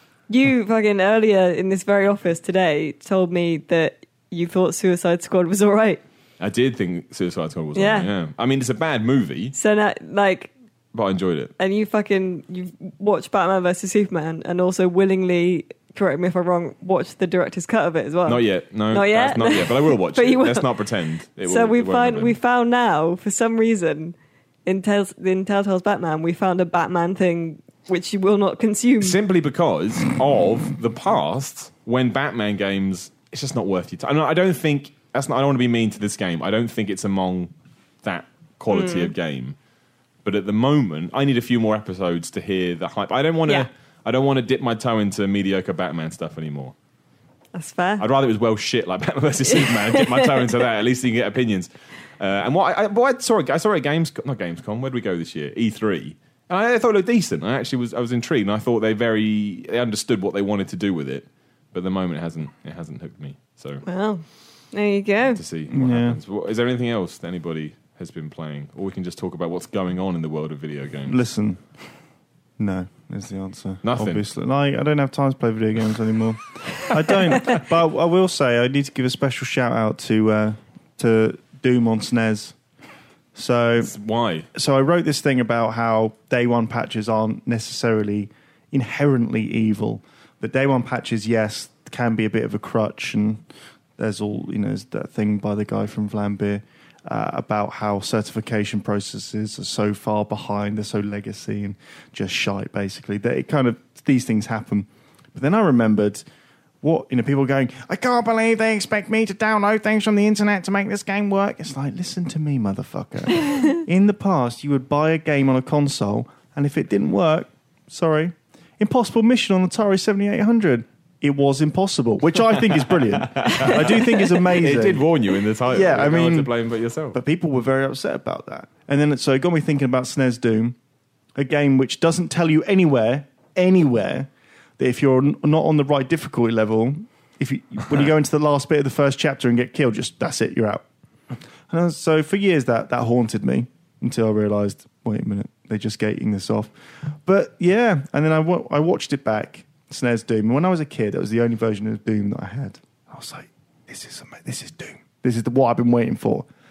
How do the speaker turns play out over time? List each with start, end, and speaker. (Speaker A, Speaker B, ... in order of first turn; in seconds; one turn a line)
Speaker A: 0.3-6.0
Speaker B: 6.4-9.5
Speaker A: 7.7-8.1
Speaker A: 9.5-10.5
Speaker B: 10.9-11.5
Speaker A: 11.6-20.7
Speaker B: 18.2-22.3
Speaker A: 21.4-24.1
Speaker A: 24.6-29.2
Speaker B: 29.0-37.5
Speaker B: 38.0-39.5
Speaker A: 38.7-39.1
Speaker B: 40.2-46.7
Speaker A: 47.5-48.0
Speaker B: 48.0-63.8
Speaker A: 49.5-50.6
Speaker A: 63.8-65.4
Speaker B: 65.3-71.2
Speaker C: 65.7-66.2
Speaker C: 71.1-71.6
Speaker C: 72.6-82.5
Speaker B: 73.8-74.2
Speaker C: 83.3-83.9
Speaker B: 83.8-84.5
Speaker C: 84.5-93.4
Speaker C: 94.0-106.2
Speaker C: 106.8-125.0
Speaker B: 122.7-127.2
Speaker C: 125.7-126.5
Speaker C: 127.1-130.8
Speaker C: 131.4-140.8
Speaker C: 141.7-156.5